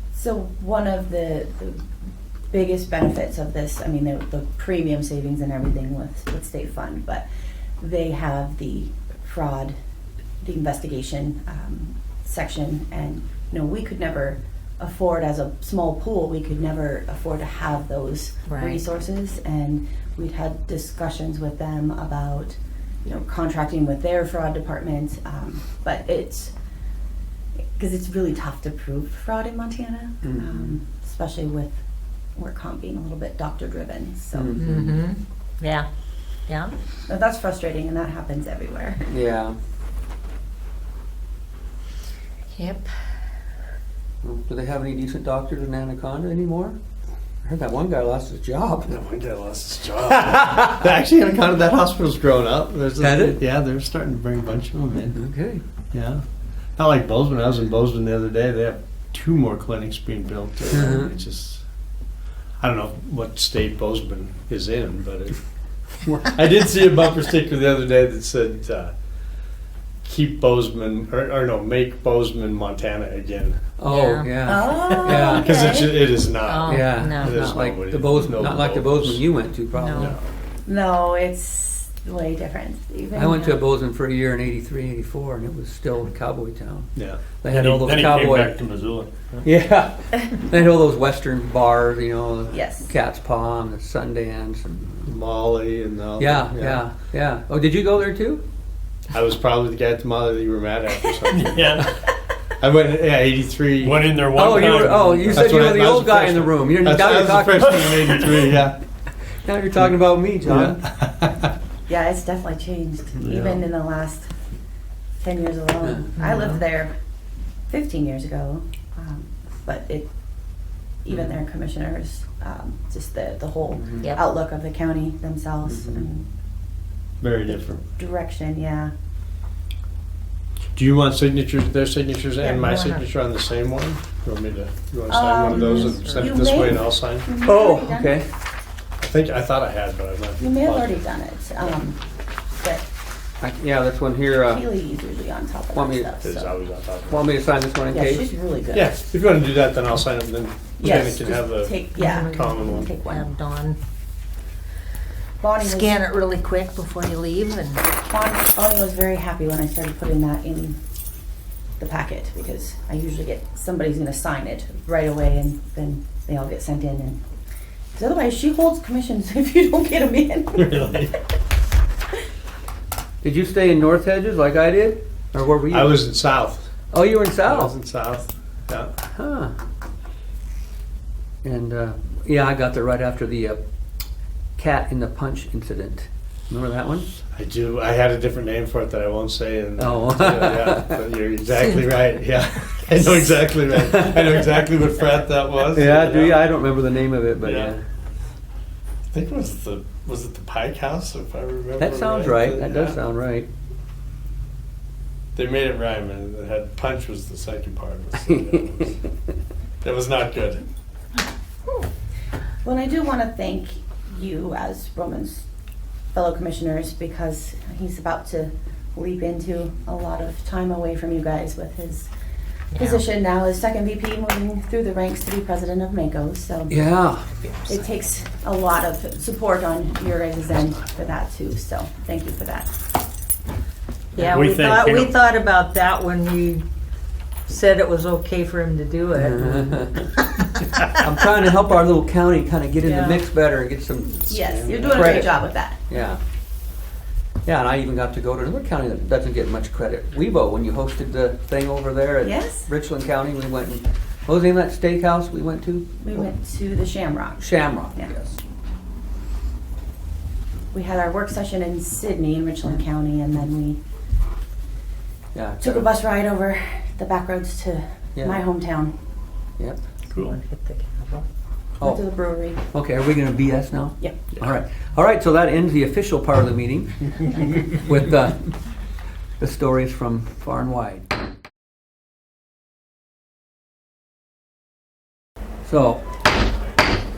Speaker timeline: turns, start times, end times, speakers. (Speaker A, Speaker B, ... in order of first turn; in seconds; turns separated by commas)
Speaker A: 0.1-1.8, Speaker A: 2.5-7.3, Speaker A: 7.8-9.8, Speaker A: 10.4-26.5, Speaker B: 18.5-18.8, Speaker A: 27.8-31.8, Speaker C: 30.2-30.8, Speaker A: 32.4-34.6, Speaker C: 34.3-35.0, Speaker B: 34.6-35.9, Speaker B: 36.5-36.8, Speaker A: 37.1-39.0, Speaker C: 39.1-39.6, Speaker B: 42.5-42.9, Speaker C: 44.2-46.8, Speaker C: 47.4-49.0, Speaker D: 48.9-55.2, Speaker C: 50.2-50.8, Speaker C: 53.0-53.4, Speaker C: 55.1-55.6, Speaker D: 55.9-56.2, Speaker D: 56.8-61.6, Speaker C: 60.8-61.1, Speaker D: 62.6-65.4, Speaker D: 66.2-68.9, Speaker D: 70.0-73.6, Speaker C: 73.8-75.6, Speaker B: 73.9-75.2, Speaker A: 74.5-76.1, Speaker D: 75.2-79.3, Speaker B: 76.4-77.4, Speaker C: 76.7-80.2, Speaker B: 79.7-80.2, Speaker A: 80.7-83.6, Speaker C: 83.2-88.6, Speaker D: 87.0-87.2, Speaker E: 87.5-89.4, Speaker C: 89.4-95.0, Speaker A: 92.5-92.9, Speaker D: 95.0-96.8, Speaker C: 96.2-98.4, Speaker D: 99.1-101.9, Speaker E: 101.3-101.9, Speaker D: 102.6-104.1, Speaker E: 103.8-105.5, Speaker C: 104.3-108.3, Speaker D: 105.3-108.8, Speaker C: 109.3-110.8, Speaker D: 110.5-111.5, Speaker A: 111.9-114.3, Speaker D: 113.2-113.6, Speaker A: 115.2-116.9, Speaker C: 115.8-116.5, Speaker A: 117.7-120.1, Speaker A: 121.0-126.3, Speaker C: 123.8-124.1, Speaker C: 125.7-126.1, Speaker D: 127.2-127.8, Speaker A: 127.5-128.9, Speaker D: 130.8-137.3, Speaker B: 132.4-133.0, Speaker A: 135.1-138.2, Speaker B: 135.4-136.2, Speaker C: 137.4-138.3, Speaker D: 139.0-141.0, Speaker A: 140.4-142.0, Speaker A: 142.6-142.8, Speaker C: 143.4-144.7, Speaker A: 144.4-146.5, Speaker C: 145.7-146.2, Speaker D: 146.2-147.4, Speaker C: 147.1-148.3, Speaker A: 147.9-148.9, Speaker D: 148.7-152.9, Speaker A: 150.8-153.3, Speaker B: 151.9-153.8, Speaker A: 155.4-156.0, Speaker B: 155.6-157.8, Speaker A: 158.0-160.8, Speaker A: 161.8-167.2, Speaker A: 167.9-171.1, Speaker D: 170.6-171.2, Speaker C: 173.2-176.0, Speaker D: 175.7-176.7, Speaker C: 176.9-177.8, Speaker D: 177.4-178.9, Speaker C: 179.1-179.5, Speaker C: 181.4-183.6, Speaker C: 184.6-187.1, Speaker D: 187.3-196.5, Speaker C: 189.8-191.0, Speaker C: 195.7-197.8, Speaker D: 197.4-197.8, Speaker D: 199.1-203.0, Speaker C: 201.8-203.5, Speaker D: 205.3-209.0, Speaker C: 208.3-208.5, Speaker D: 209.8-210.6, Speaker A: 212.6-215.5, Speaker A: 216.1-222.1, Speaker A: 222.8-226.8, Speaker C: 226.7-227.8, Speaker A: 227.7-232.7, Speaker B: 234.2-236.6, Speaker E: 234.2-235.2, Speaker B: 237.5-240.1, Speaker C: 239.1-240.1, Speaker C: 240.8-246.2, Speaker B: 242.8-243.2, Speaker A: 244.3-245.8, Speaker D: 244.6-245.2, Speaker C: 247.4-256.3, Speaker A: 252.2-252.7, Speaker A: 256.0-258.1, Speaker C: 257.4-258.4, Speaker A: 260.7-263.8, Speaker C: 265.3-265.9, Speaker A: 265.6-268.9, Speaker C: 268.2-268.4, Speaker B: 270.2-271.2, Speaker C: 271.8-272.1, Speaker A: 271.8-272.6, Speaker C: 272.7-278.5, Speaker C: 279.4-281.1, Speaker C: 285.6-286.0